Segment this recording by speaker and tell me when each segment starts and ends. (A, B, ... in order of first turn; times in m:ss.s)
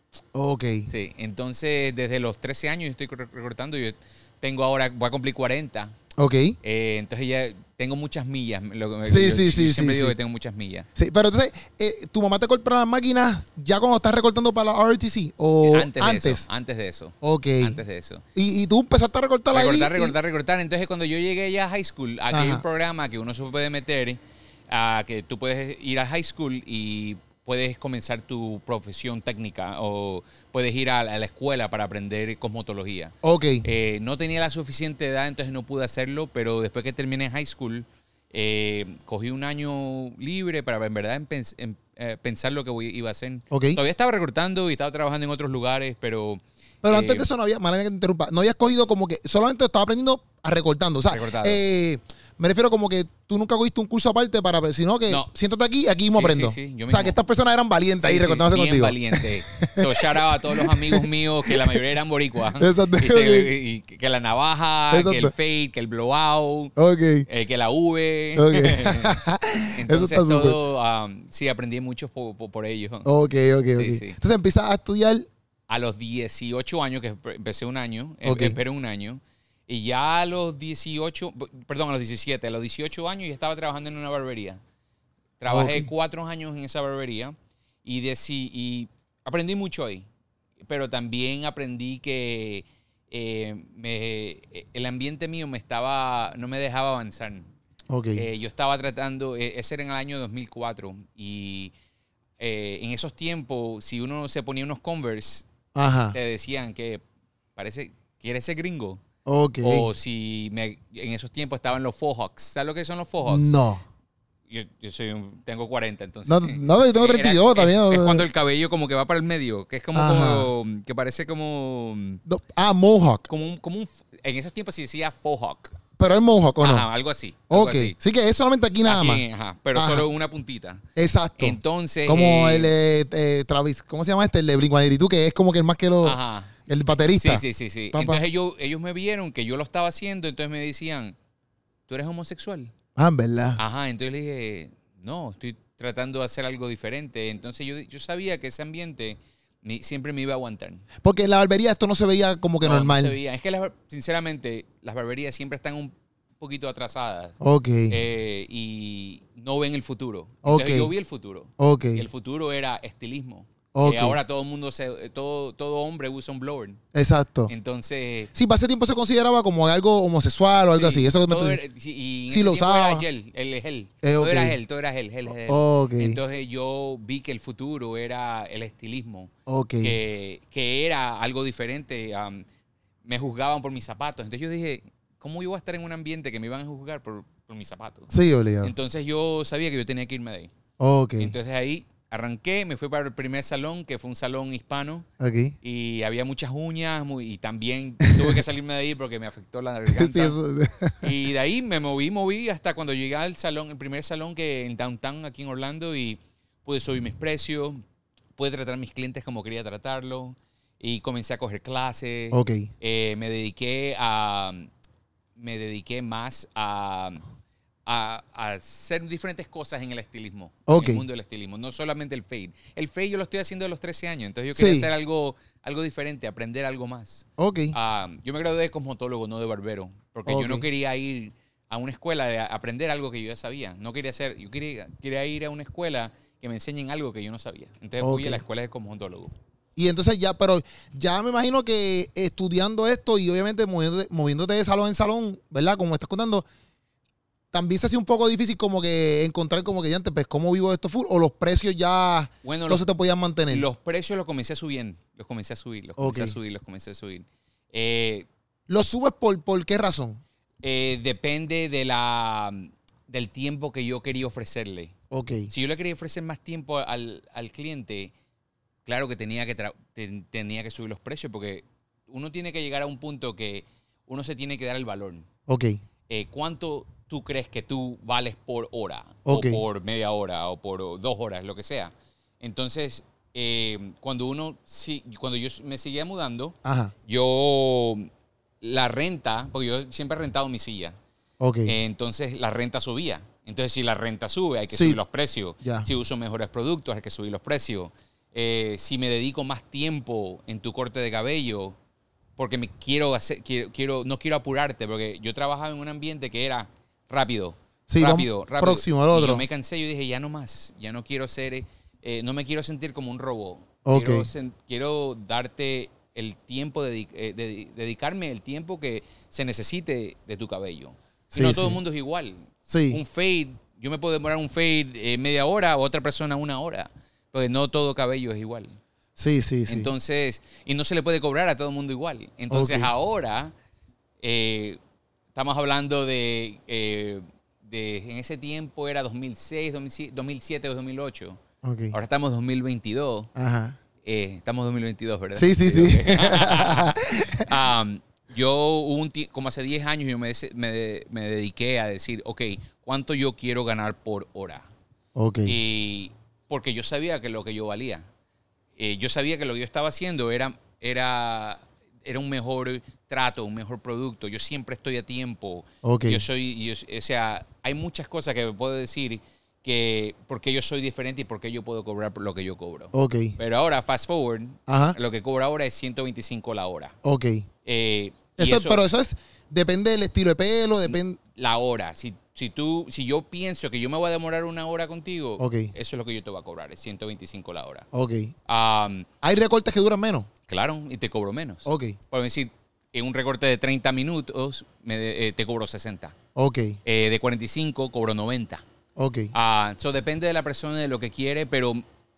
0:00.3-0:00.9 A
0:00.9-0:05.9 B
0:06.2-0:06.6 A
0:06.6-0:10.9 B
0:09.1-0:10.1 A
0:11.0-0:16.4 A
0:15.6-0:18.2 B
0:17.2-0:17.8 A
0:18.3-0:20.1 A
0:19.5-0:47.3 B
0:22.3-0:22.6 A
0:33.2-0:33.6 A
0:43.5-0:43.8 A
0:46.8-1:01.8 A
0:51.1-0:51.6 B
0:56.1-0:57.2 B
0:58.0-1:06.7 B
1:02.6-1:03.5 A
1:04.9-1:05.3 A
1:06.8-1:07.3 A
1:07.3-1:13.1 B
1:08.3-1:10.6 A
1:13.0-1:15.3 A
1:13.7-1:14.2 B
1:15.7-1:24.6 B
1:18.2-1:18.6 A
1:25.4-1:30.1 B
1:25.5-1:25.9 A
1:30.6-1:37.5 B
1:37.9-1:38.3 A
1:38.2-1:41.7 B
1:42.4-1:45.5 B
1:45.7-1:46.2 A
1:46.1-1:47.0 B
1:47.6-1:49.0 B
1:49.2-1:49.9 A
1:49.6-1:53.5 B
1:53.2-1:53.8 A
1:54.5-2:02.2 B
1:56.3-1:58.2 A
1:59.9-2:00.5 A
2:02.2-2:03.3 A
2:03.3-2:05.7 B
2:06.0-2:06.8 A
2:06.6-2:08.0 B
2:07.5-2:09.2 A
2:08.8-2:10.8 B
2:09.7-2:10.0 A
2:11.0-2:18.2 A
2:11.4-2:12.7 B
2:16.0-2:16.5 B
2:17.1-2:21.2 B
2:21.9-2:22.7 B
2:23.0-2:23.6 A
2:23.6-2:30.8 B
2:31.0-2:33.1 A
2:32.6-2:37.4 B
2:37.4-2:38.0 A
2:37.9-2:46.8 B
2:40.4-2:40.9 A
2:41.6-2:42.0 A
2:43.7-2:44.2 A
2:46.9-2:47.5 A
2:47.5-2:48.3 B
2:48.3-2:51.6 A
2:50.7-3:02.4 B
2:52.3-2:53.0 A
2:54.0-2:54.6 A
2:55.3-2:56.2 A
2:59.5-3:00.0 A
3:03.0-3:08.1 B
3:08.1-3:08.7 A
3:08.6-3:10.5 B
3:10.8-3:11.3 A
3:11.2-3:15.0 B
3:15.2-3:15.5 A
3:15.6-3:20.4 B
3:18.0-3:18.4 A
3:19.9-3:21.1 A
3:21.0-3:27.8 B
3:28.4-3:34.7 B
3:32.3-3:32.7 A
3:35.4-3:37.2 B
3:37.8-3:59.3 B
3:40.7-3:41.0 A
3:44.5-3:44.9 A
3:47.4-3:47.7 A
3:50.3-3:50.6 A
3:58.0-3:58.4 A
3:59.8-4:06.4 A
4:07.5-4:13.7 A
4:12.4-4:12.8 B
4:13.5-4:18.3 B
4:16.0-4:16.4 A
4:18.7-4:20.2 A
4:20.6-4:24.9 B
4:25.1-4:25.5 A
4:25.5-4:28.1 B
4:28.8-4:35.2 B
4:35.5-4:35.8 A
4:36.1-4:48.1 B
4:39.2-4:39.6 A
4:46.6-4:46.9 A
4:48.6-4:51.0 B
4:51.4-4:51.8 A
4:51.6-5:01.8 B
4:54.7-4:55.0 A
4:55.6-4:55.9 A
5:02.4-5:28.8 B
5:07.9-5:09.4 A
5:13.8-5:14.3 A
5:21.3-5:21.8 A
5:22.7-5:23.0 A
5:29.2-5:29.9 A
5:29.7-5:33.5 B
5:32.5-5:32.9 A
5:34.2-5:34.8 B
5:35.3-5:41.4 B
5:41.6-5:42.0 A
5:41.9-5:43.3 B
5:43.4-5:43.8 A
5:44.0-5:54.7 B
5:45.4-5:47.5 A
5:55.2-5:55.6 A
5:55.4-5:58.1 B
5:58.8-6:17.0 B
6:05.8-6:06.2 A
6:12.9-6:13.4 A
6:14.7-6:15.0 A
6:17.0-6:17.5 A
6:17.6-6:18.8 B
6:18.4-6:21.2 A
6:20.8-6:27.9 B
6:25.4-6:25.7 A
6:27.9-6:28.3 A
6:28.4-6:29.1 B
6:29.2-6:30.3 A
6:30.5-6:36.1 B
6:31.6-6:32.0 A
6:36.4-6:36.8 A
6:36.8-6:38.6 B
6:39.0-6:39.3 A
6:39.3-6:41.8 B